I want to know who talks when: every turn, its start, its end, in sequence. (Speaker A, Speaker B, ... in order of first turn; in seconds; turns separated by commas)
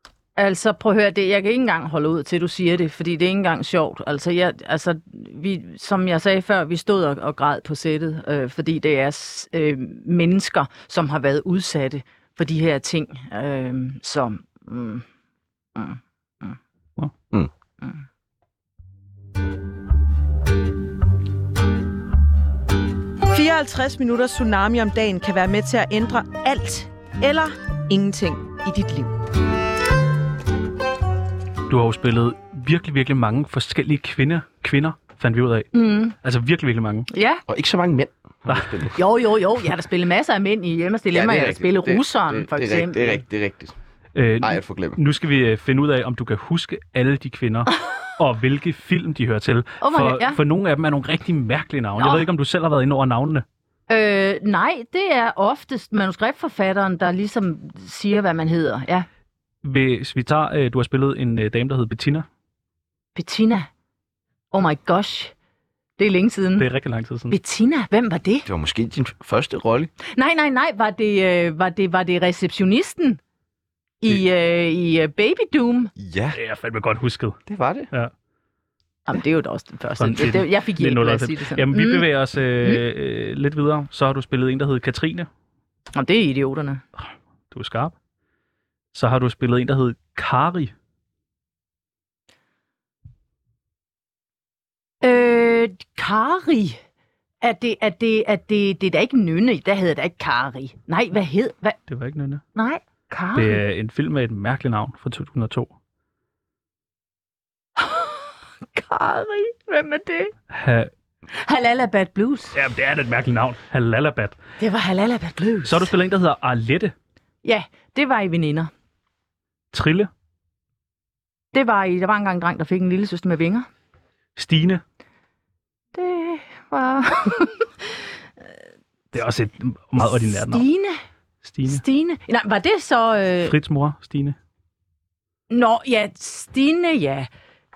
Speaker A: 0.4-15.1, Speaker A: 15.8-16.6, Speaker B: 23.3-29.1, Speaker C: 31.7-37.1, Speaker A: 35.7-36.1, Speaker A: 37.1-37.4, Speaker D: 37.5-39.0, Speaker C: 38.5-38.9, Speaker A: 39.0-43.2, Speaker D: 41.1-43.8, Speaker C: 44.1-53.5, Speaker D: 44.4-45.0, Speaker A: 49.8-50.4, Speaker A: 52.0-52.3, Speaker A: 53.9-59.1, Speaker C: 59.6-62.3, Speaker A: 63.1-63.7, Speaker A: 64.5-65.3, Speaker A: 66.0-66.7, Speaker C: 66.6-67.3, Speaker A: 67.3-68.5, Speaker D: 68.5-69.9, Speaker A: 70.1-73.2, Speaker A: 74.0-75.9, Speaker D: 76.0-76.4, Speaker C: 76.3-77.4, Speaker D: 77.5-77.9, Speaker A: 79.1-82.0, Speaker C: 80.0-85.3, Speaker A: 85.9-86.8, Speaker C: 87.5-87.9, Speaker C: 88.9-90.7, Speaker A: 95.0-96.8, Speaker A: 97.4-101.8, Speaker C: 101.9-102.4, Speaker A: 102.5-103.6, Speaker C: 103.3-105.7, Speaker A: 107.8-110.3, Speaker C: 110.5-110.9, Speaker A: 111.3-112.5, Speaker C: 112.5-114.4, Speaker A: 114.6-115.9, Speaker C: 115.7-116.9, Speaker A: 117.4-118.7, Speaker C: 119.7-120.1, Speaker A: 121.5-123.7, Speaker C: 124.4-124.8, Speaker A: 126.0-127.7, Speaker C: 129.1-130.7, Speaker A: 130.0-131.0, Speaker C: 131.4-131.8, Speaker A: 131.7-133.6, Speaker C: 133.4-134.4, Speaker A: 135.5-137.3